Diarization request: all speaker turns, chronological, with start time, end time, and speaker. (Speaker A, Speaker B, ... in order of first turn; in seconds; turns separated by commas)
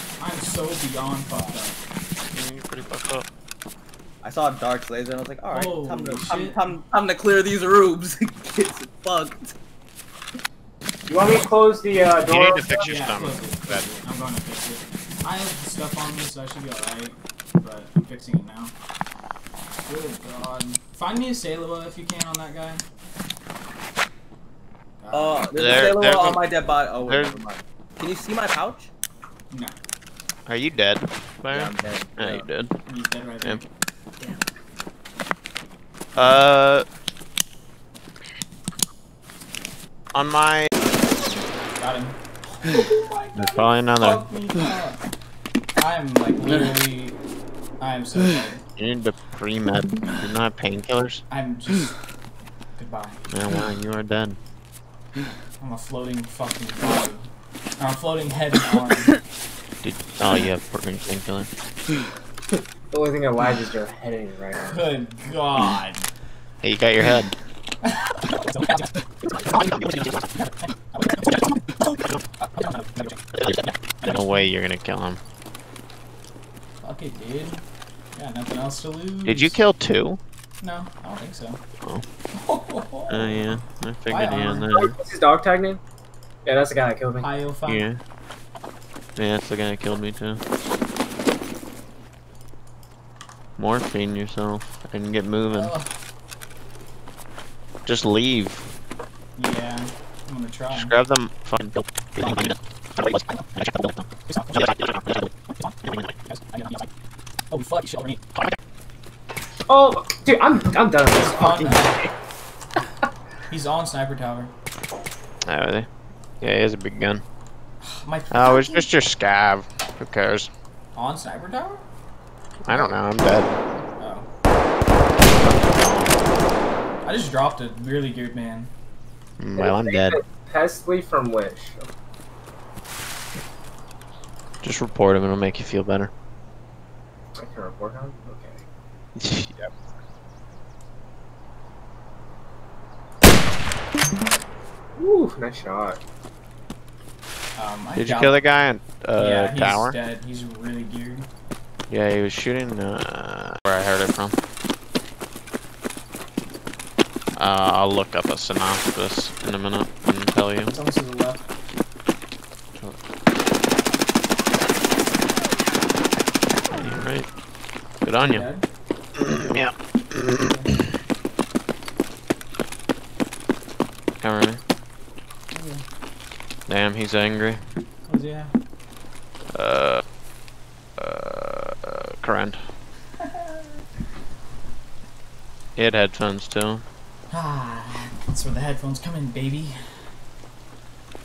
Speaker A: 0.2-1.8, Speaker B: 2.3-3.3, Speaker C: 4.2-9.5, Speaker A: 5.5-6.7, Speaker D: 11.1-12.9, Speaker B: 12.2-13.9, Speaker A: 12.8-18.7, Speaker A: 19.9-22.8, Speaker A: 25.0-26.0, Speaker C: 25.1-28.9, Speaker B: 25.5-26.4, Speaker B: 27.0-27.4, Speaker A: 29.5-29.8, Speaker B: 30.5-32.7, Speaker C: 31.5-32.5, Speaker A: 32.9-33.6, Speaker B: 36.1-36.8, Speaker A: 36.2-36.4, Speaker B: 40.1-40.7, Speaker A: 40.9-45.0, Speaker B: 43.4-44.2, Speaker A: 45.8-47.2, Speaker A: 47.8-48.6, Speaker B: 48.8-51.2, Speaker A: 51.3-52.0, Speaker A: 52.8-53.2, Speaker B: 53.3-54.4, Speaker A: 55.5-59.2, Speaker B: 59.8-61.5, Speaker D: 62.5-64.8, Speaker A: 64.6-66.1, Speaker B: 66.6-67.3, Speaker A: 67.8-68.9, Speaker B: 69.5-70.3, Speaker A: 70.5-73.2, Speaker B: 73.3-75.2, Speaker A: 74.0-74.5, Speaker A: 76.8-77.6, Speaker A: 78.2-79.6, Speaker B: 79.3-80.2, Speaker A: 80.6-81.6, Speaker A: 82.3-83.4, Speaker B: 83.1-85.0, Speaker A: 84.1-84.7, Speaker D: 84.7-85.8, Speaker D: 86.5-87.3, Speaker A: 87.2-87.8, Speaker B: 87.7-88.0, Speaker B: 89.2-90.4, Speaker B: 93.6-95.7, Speaker A: 95.5-95.9, Speaker B: 97.8-98.7, Speaker A: 99.3-101.0, Speaker B: 100.7-105.3, Speaker A: 104.3-104.8, Speaker B: 105.8-106.1, Speaker A: 106.3-106.9, Speaker A: 107.5-108.2, Speaker D: 109.7-112.1, Speaker A: 111.1-112.0, Speaker A: 113.5-114.5, Speaker B: 115.5-115.9, Speaker B: 116.4-117.2, Speaker A: 117.8-118.9, Speaker B: 118.3-120.5, Speaker A: 120.9-121.8, Speaker B: 122.7-123.5, Speaker A: 124.0-124.3, Speaker B: 125.3-126.2, Speaker A: 127.0-128.7, Speaker B: 129.4-130.2, Speaker D: 129.6-131.9, Speaker B: 134.6-136.1, Speaker D: 137.4-138.7, Speaker B: 139.2-139.7, Speaker D: 145.0-146.0, Speaker A: 147.6-148.4, Speaker B: 148.0-150.0, Speaker A: 149.2-151.3, Speaker B: 151.9-154.3, Speaker B: 157.3-160.8, Speaker A: 160.7-161.5, Speaker B: 166.7-167.3, Speaker B: 168.0-168.5, Speaker A: 168.2-168.6, Speaker B: 169.2-170.8, Speaker A: 170.4-170.7, Speaker B: 174.2-174.6, Speaker A: 175.5-175.8, Speaker B: 176.7-177.6, Speaker A: 178.1-178.5, Speaker B: 179.5-180.0, Speaker B: 181.0-182.6, Speaker B: 185.8-186.8, Speaker A: 187.3-189.8